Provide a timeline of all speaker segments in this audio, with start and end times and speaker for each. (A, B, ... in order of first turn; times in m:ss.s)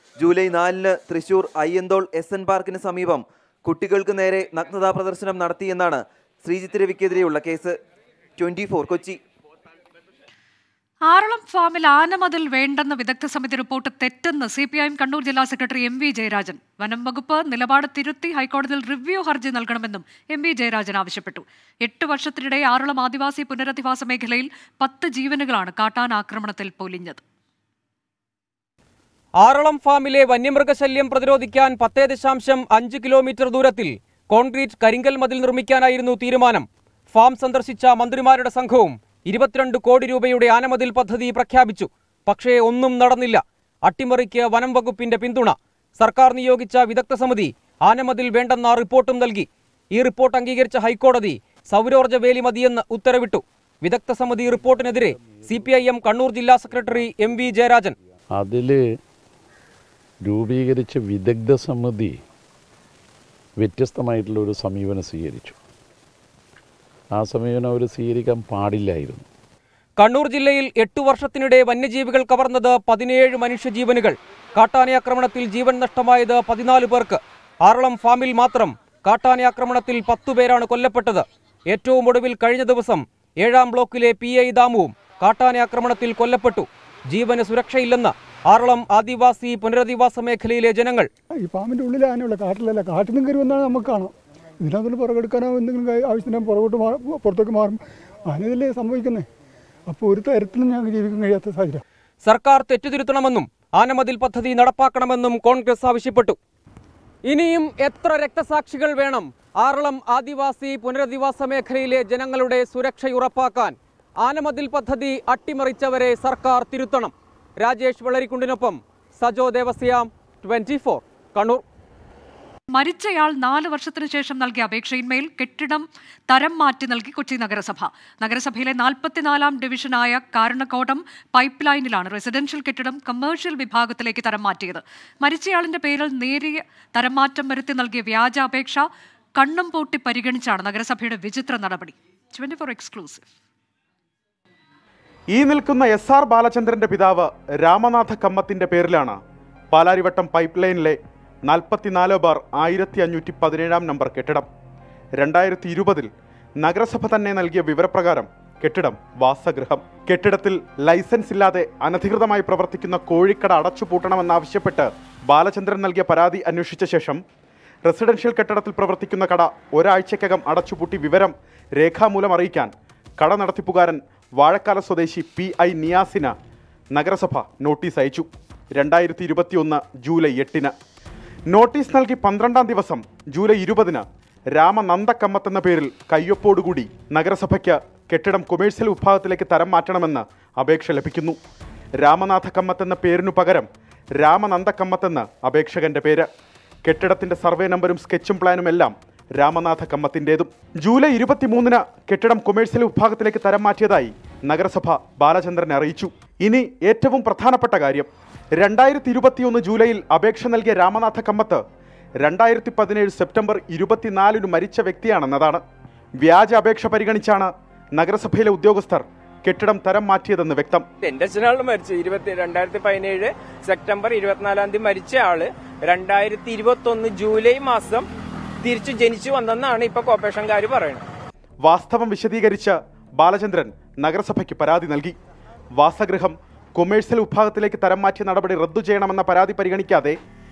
0:00.2-0:07.8 A
0:08.4-0:09.2 A
0:11.1-0:27.2 B
0:29.4-0:57.9 C
0:55.2-0:55.4 D
0:58.3-0:58.8 D
1:00.2-1:02.2 D
1:03.6-1:05.6 D
1:07.1-1:09.2 D
1:10.0-1:31.1 C
1:31.4-1:39.3 E
1:39.9-1:41.8 E
1:42.2-1:46.4 C
1:47.2-2:01.6 C
2:02.7-2:18.8 B
2:19.4-2:23.3 B
2:25.3-2:29.2 F
2:29.7-2:34.5 F
2:35.2-2:47.2 F
2:47.8-2:56.3 F
2:56.9-3:00.7 F
3:01.5-3:11.4 F
3:12.0-3:16.3 F
3:16.8-3:31.6 F
3:32.2-3:35.6 F
3:36.2-3:40.8 F
3:41.0-3:48.0 G
3:48.6-3:51.0 G
3:51.6-3:55.2 F
3:55.7-4:00.2 F